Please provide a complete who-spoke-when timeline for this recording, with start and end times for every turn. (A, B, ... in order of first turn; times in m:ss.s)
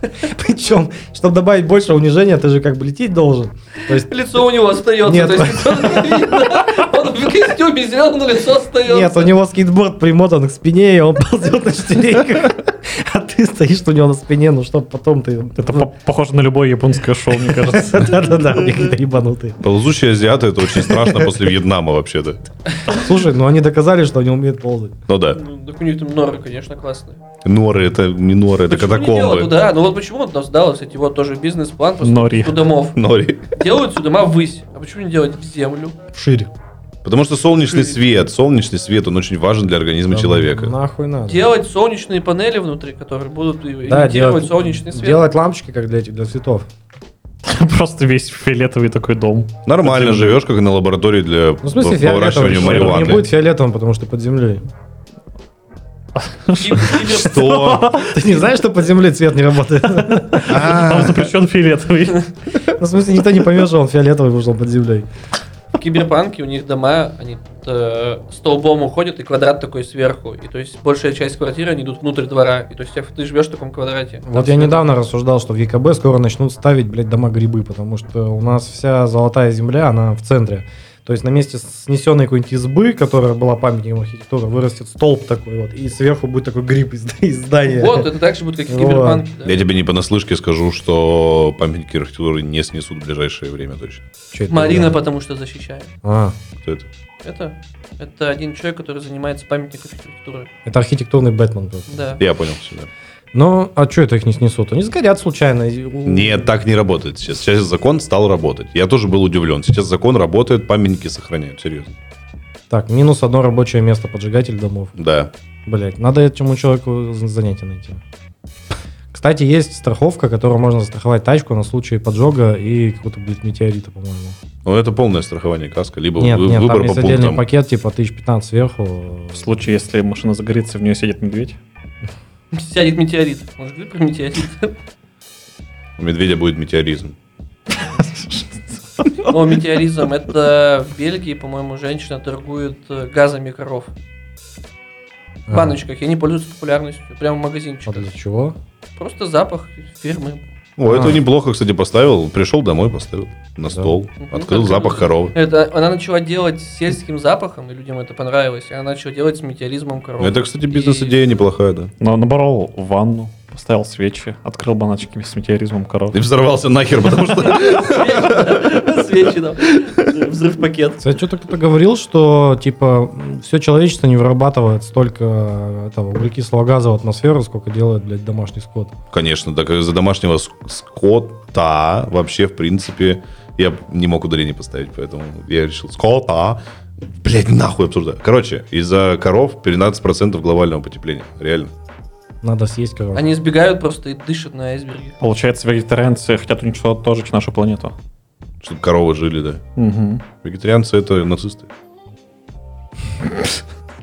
0:00.2-0:04.1 A
0:03.9-0:09.3 B
0:05.0-0:06.8 A
0:08.8-0:15.9 A
0:15.6-0:18.3 C
0:17.4-0:19.6 A
0:19.6-0:22.4 D
0:20.8-0:21.3 A
0:22.8-0:25.0 A
0:25.1-0:25.4 D
0:25.3-0:27.2 B
0:27.4-0:29.5 D
0:28.7-0:33.0 B
0:32.0-0:32.6 C
0:33.0-0:33.5 D
0:33.5-0:36.0 B
0:36.1-0:36.5 A
0:37.0-0:40.7 D
0:37.7-0:38.0 B
0:40.1-0:41.5 A
0:41.2-0:45.2 B
0:43.9-0:46.6 A
0:47.4-0:49.5 C
0:49.6-0:53.3 D
0:49.8-0:50.4 A
0:51.6-0:54.6 A
0:52.5-0:53.0 C
0:56.2-0:58.3 C
0:56.6-0:57.7 B
0:57.0-0:58.0 D
0:58.0-1:00.6 A
1:00.1-1:02.3 C
1:00.5-1:01.3 D
1:02.7-1:05.1 A
1:05.8-1:14.8 B
1:14.2-1:28.1 A
1:27.7-1:29.6 B
1:28.7-1:29.2 A
1:29.4-1:34.0 D
1:34.3-1:34.9 A
1:34.5-1:35.9 B
1:36.0-1:36.4 A
1:36.6-1:36.9 D
1:37.2-1:40.5 B
1:40.6-1:42.1 A
1:41.9-1:42.2 B
1:42.2-1:42.9 D
1:43.3-1:46.5 A
1:46.0-1:51.9 D
1:52.7-1:54.9 A
1:55.0-1:55.3 D
1:55.6-1:58.0 A
1:59.1-2:04.4 A
2:04.6-2:07.4 D
2:06.2-2:09.5 A
2:09.3-2:11.6 C
2:12.5-2:14.7 B
2:16.0-2:17.2 D
2:17.7-2:19.3 C
2:19.3-2:23.9 B
2:25.5-2:25.8 A
2:25.5-2:28.1 B
2:27.8-2:28.6 A
2:29.0-2:30.4 B
2:30.8-2:35.3 D
2:30.8-2:31.2 A
2:34.2-2:41.2 B
2:40.2-2:41.9 D
2:42.0-2:46.2 C
2:46.1-2:48.8 D
2:47.4-2:51.0 B
2:51.0-2:58.9 A
2:59.1-3:11.7 D
3:12.4-3:13.4 A
3:13.1-3:15.1 B
3:15.2-3:17.9 C
3:18.6-3:19.6 D
3:19.8-3:20.2 C
3:20.4-3:21.7 D